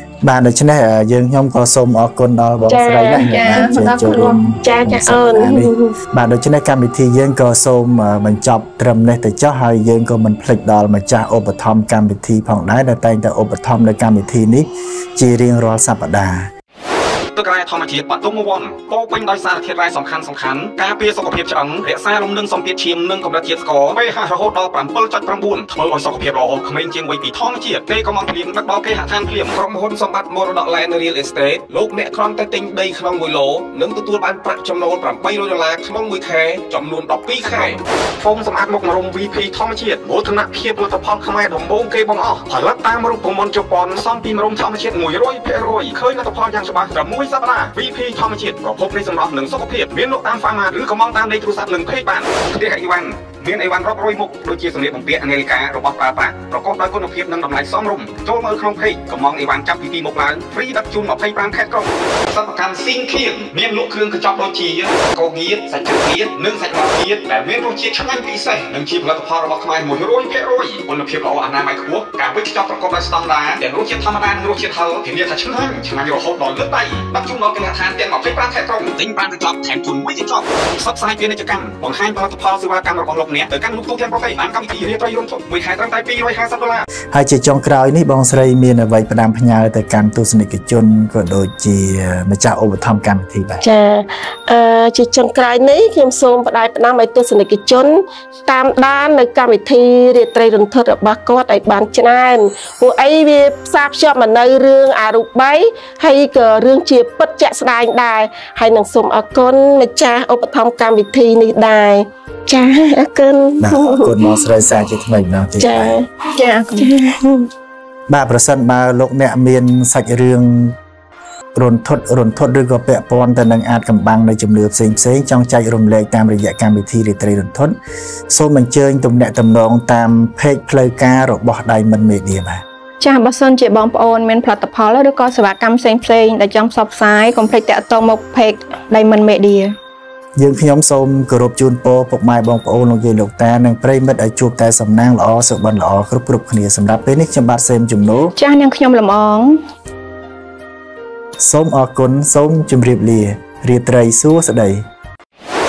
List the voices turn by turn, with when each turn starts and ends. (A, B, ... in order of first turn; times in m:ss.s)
0:00.2-0:16.5 A
0:02.7-0:05.9 B
0:03.2-0:04.4 C
0:17.3-1:26.8 D
1:27.1-1:33.6 A
1:33.6-1:54.4 B
1:53.6-1:56.0 A
1:55.6-1:57.5 B
1:56.4-1:56.9 C
1:58.1-2:00.8 A
2:01.5-2:07.8 A
2:08.3-2:12.6 A
2:13.0-2:19.7 C
2:20.4-2:28.4 A
2:28.4-2:29.6 C
2:31.4-2:34.8 A